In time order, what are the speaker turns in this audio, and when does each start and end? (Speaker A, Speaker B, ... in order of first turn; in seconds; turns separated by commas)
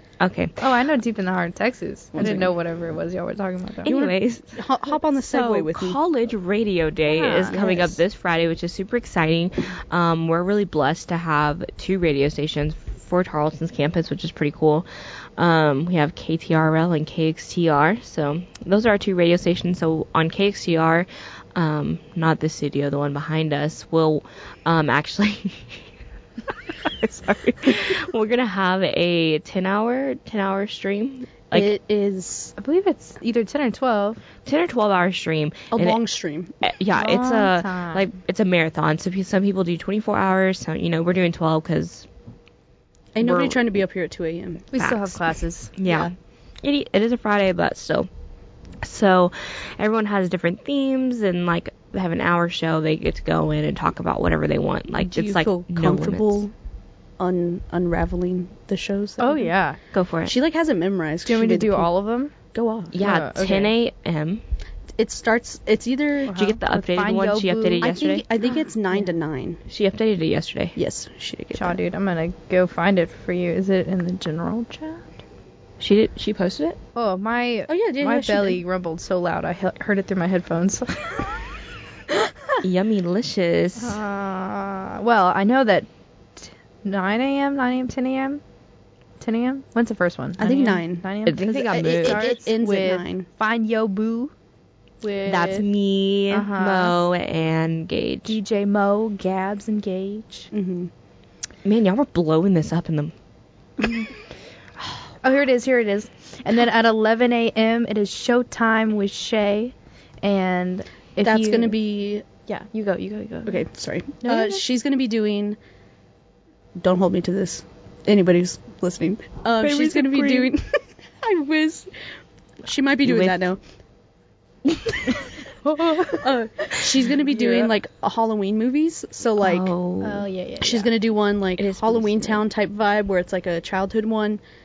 Speaker A: 0.2-0.6, Speaker B: 0.6-4.0, Speaker C: 2.1-2.5, Speaker A: 3.9-4.6, Speaker C: 3.9-6.0, Speaker A: 5.2-25.8, Speaker B: 7.1-7.6, Speaker C: 7.5-8.0, Speaker A: 26.5-31.7, Speaker C: 31.5-32.5, Speaker B: 32.6-34.2, Speaker A: 34.5-36.0, Speaker C: 35.7-36.5, Speaker A: 36.6-42.1, Speaker B: 37.0-38.1, Speaker C: 43.1-44.7, Speaker A: 43.2-43.7, Speaker B: 44.7-45.7, Speaker A: 44.8-46.1, Speaker C: 45.9-46.1, Speaker A: 46.6-48.1, Speaker A: 48.8-56.4, Speaker C: 55.0-56.5, Speaker C: 57.2-59.5, Speaker B: 59.2-59.8, Speaker A: 59.9-60.4, Speaker C: 60.3-61.9, Speaker B: 61.3-62.3, Speaker C: 62.5-63.0, Speaker A: 62.9-64.4, Speaker B: 63.0-63.7, Speaker C: 65.0-66.3, Speaker B: 66.3-69.1, Speaker A: 66.3-68.3, Speaker C: 67.8-69.6, Speaker A: 69.7-70.8, Speaker C: 70.8-71.8, Speaker B: 71.5-75.1, Speaker A: 75.8-76.8, Speaker B: 77.0-81.3, Speaker C: 77.7-78.6, Speaker B: 82.1-82.6, Speaker A: 82.6-84.0, Speaker B: 83.8-88.4, Speaker B: 89.2-94.3, Speaker C: 90.4-93.3, Speaker A: 91.3-92.3, Speaker B: 95.0-95.7, Speaker A: 95.3-98.4, Speaker B: 96.3-97.0, Speaker B: 98.3-100.5, Speaker C: 100.5-100.9, Speaker A: 101.7-103.1, Speaker B: 105.2-111.8, Speaker C: 111.2-112.3, Speaker B: 112.5-113.7, Speaker C: 113.5-115.6, Speaker B: 114.2-114.6, Speaker C: 116.8-121.9, Speaker A: 119.6-120.5, Speaker C: 122.6-123.6, Speaker A: 123.0-123.4, Speaker B: 125.7-126.2, Speaker C: 126.0-129.7, Speaker B: 127.3-127.7, Speaker A: 129.4-130.3, Speaker B: 130.0-130.9, Speaker C: 130.6-134.4, Speaker A: 131.6-132.4